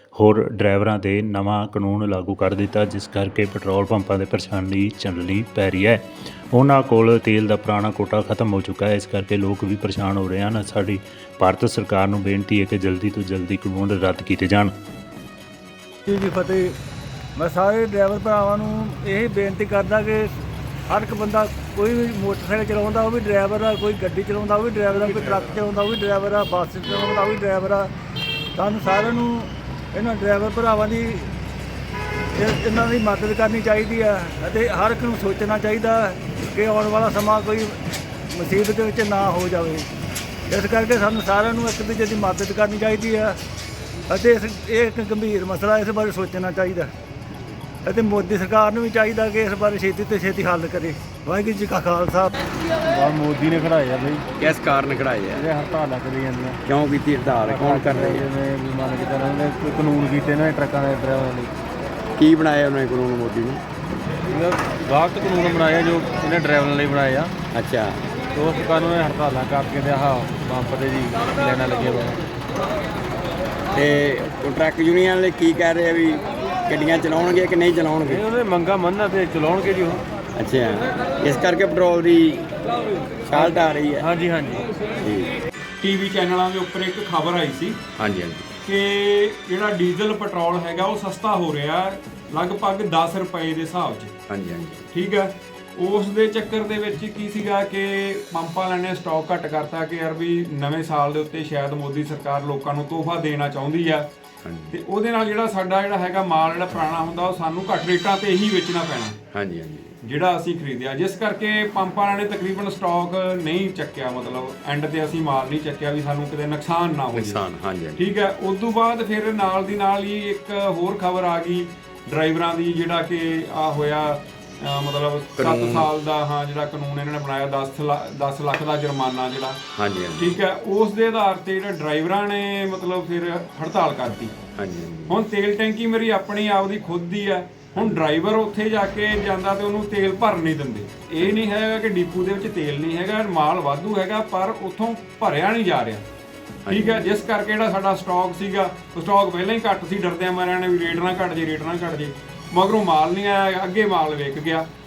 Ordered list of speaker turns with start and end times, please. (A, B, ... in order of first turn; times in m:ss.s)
0:00.2-0:14.7 A
0:16.1-0:16.7 B
0:17.4-0:20.3 B
0:20.9-0:27.9 B
0:28.6-0:31.3 B
0:32.4-0:37.8 B
0:38.3-0:39.9 B
0:40.5-0:43.4 B
0:44.1-0:46.9 B
0:47.8-0:52.4 B
0:52.8-0:54.3 C
0:54.4-0:55.4 D
0:55.3-0:56.6 C
0:56.6-0:58.2 D
0:57.4-1:01.5 C
1:02.2-1:03.6 D
1:04.3-1:07.3 C
1:07.5-1:08.0 D
1:08.3-1:12.2 C
1:13.7-1:18.2 D
1:18.1-1:20.0 C
1:20.4-1:22.5 D
1:23.2-1:24.1 D
1:23.3-1:24.7 C
1:25.0-1:25.3 D
1:25.8-1:27.8 E
1:28.0-1:28.5 D
1:28.6-1:34.1 E
1:34.3-1:34.9 D
1:34.9-1:44.1 E
1:44.4-1:44.8 D
1:44.7-1:49.2 E
1:49.3-1:50.0 D
1:50.0-1:57.4 E
1:57.1-1:58.0 D
1:58.0-2:09.6 E
2:05.4-2:05.9 D
2:09.7-2:10.4 D
2:10.2-2:14.4 E
2:14.6-2:15.2 D
2:15.1-2:26.0 E
2:26.6-2:27.2 D
2:26.7-2:34.7 E